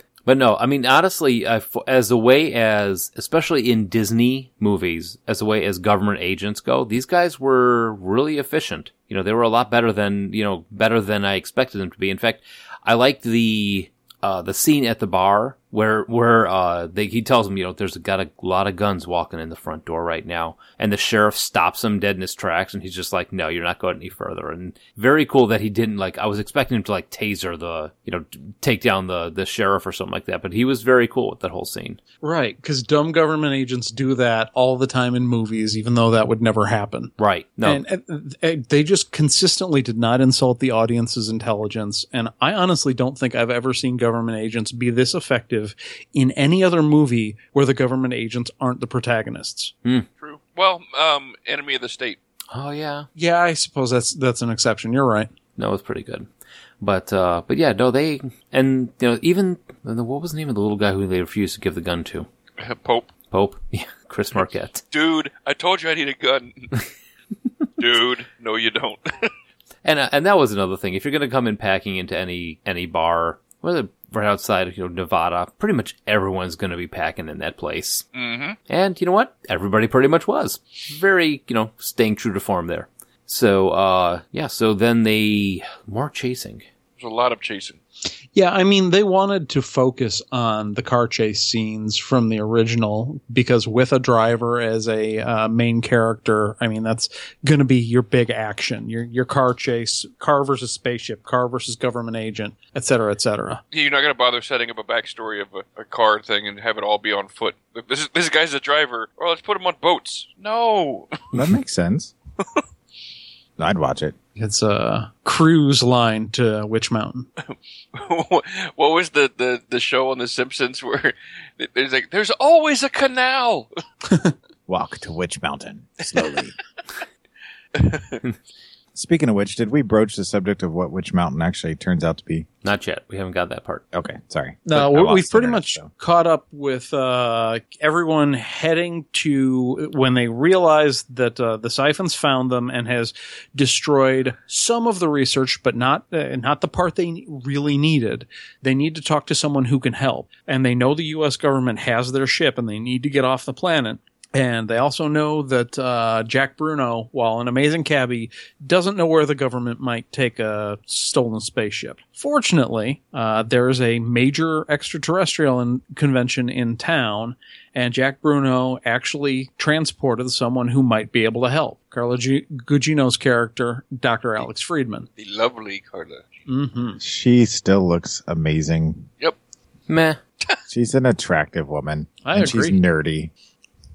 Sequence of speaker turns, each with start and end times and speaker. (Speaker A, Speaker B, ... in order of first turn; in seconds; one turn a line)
Speaker A: 0.2-32.0
Speaker B: 32.2-37.1
Speaker A: 37.2-37.8
Speaker B: 37.6-49.7
Speaker C: 50.2-52.2
Speaker A: 52.5-53.1
Speaker B: 53.1-55.3
Speaker A: 55.5-56.3
Speaker A: 56.8-62.3
Speaker C: 62.6-63.1
Speaker A: 63.3-64.8
Speaker C: 64.9-66.7
Speaker C: 67.8-69.3
Speaker A: 69.8-78.0
Speaker C: 78.1-78.6
Speaker A: 78.7-86.7
Speaker C: 87.0-87.8
Speaker B: 88.3-103.6
Speaker C: 103.7-111.1
Speaker D: 111.3-112.1
Speaker D: 113.6-114.1
Speaker B: 114.4-117.3
Speaker C: 117.9-123.7
Speaker D: 124.7-126.5
Speaker C: 127.7-128.2
Speaker D: 128.9-132.5
Speaker A: 132.6-133.8
Speaker D: 133.9-135.9
Speaker B: 134.7-175.1
Speaker C: 175.2-176.3
Speaker B: 176.5-177.0
Speaker D: 177.0-179.1
Speaker A: 179.9-180.2
Speaker D: 180.7-183.3
Speaker B: 182.2-182.8